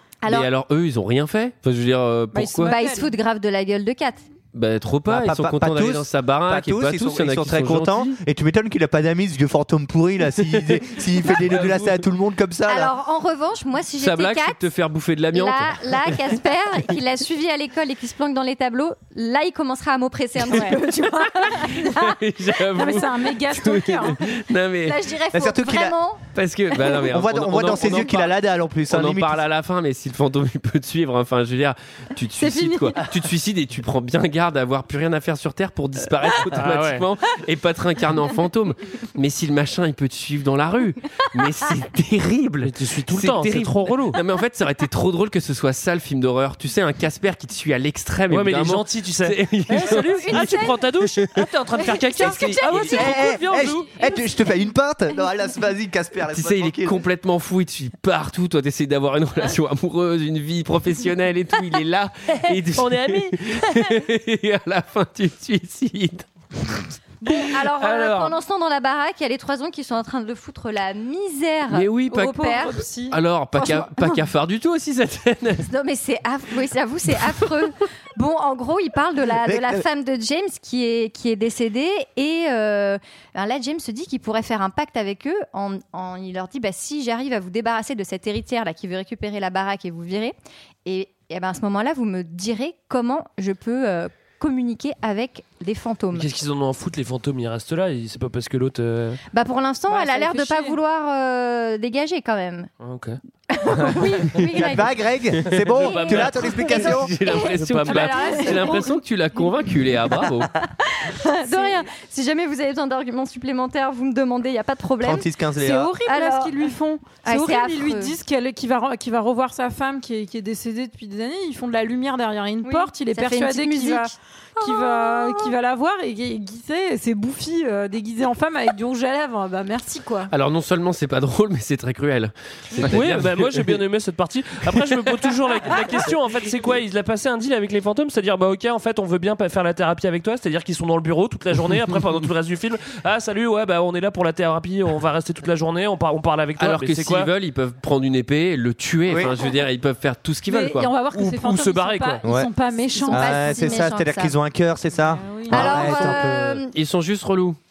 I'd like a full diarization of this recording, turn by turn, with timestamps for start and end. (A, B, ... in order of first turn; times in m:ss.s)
0:00.2-0:00.5 A
0:00.3-0:02.7 B
0:02.3-0:03.1 C
0:02.6-0:04.2 A
0:04.5-0:08.2 B
0:05.1-0:12.9 D
0:11.0-0:12.0 B
0:12.7-0:14.7 A
0:14.0-0:16.4 B
0:15.3-0:22.0 A
0:20.5-0:20.8 C
0:20.5-0:25.1 B
0:22.7-0:24.2 C
0:24.8-0:26.2 A
0:25.3-0:26.0 D
0:26.3-0:28.3 B
0:27.0-0:29.4 D
0:28.9-0:50.5 B
0:32.4-0:33.0 A
0:36.5-0:37.0 E
0:42.6-0:44.2 E
0:48.3-0:53.9 E
0:49.8-0:50.9 A
0:51.8-0:53.3 A
0:52.8-0:57.0 D
0:56.3-1:06.3 B
1:02.7-1:03.4 E
1:07.2-1:12.8 A
1:07.3-1:08.3 B
1:11.7-1:15.7 B
1:12.1-1:13.2 C
1:13.6-1:14.1 A
1:15.6-1:36.3 A
1:19.4-1:19.8 D
1:36.1-1:39.2 E
1:39.3-1:42.7 A
1:39.9-1:40.8 C
1:42.8-1:43.2 E
1:43.5-1:44.9 A
1:44.4-1:47.1 D
1:45.7-1:47.0 E
1:45.8-1:47.5 A
1:46.7-1:50.5 B
1:47.6-1:48.4 E
1:47.9-1:48.9 C
1:48.1-1:48.6 A
1:50.6-1:55.3 A
1:51.4-1:51.8 C
1:55.0-1:55.9 D
1:55.6-2:10.3 C
1:56.0-1:58.1 A
2:02.6-2:05.5 A
2:10.3-2:13.7 B
2:12.8-2:27.3 E
2:26.6-2:30.9 B
2:29.1-2:29.3 D
2:30.5-2:33.8 C
2:31.1-2:32.2 E
2:32.2-2:32.5 D
2:32.9-2:34.3 A
2:33.1-2:36.6 D
2:35.0-2:35.9 C
2:35.5-2:36.7 A
2:35.5-2:37.6 B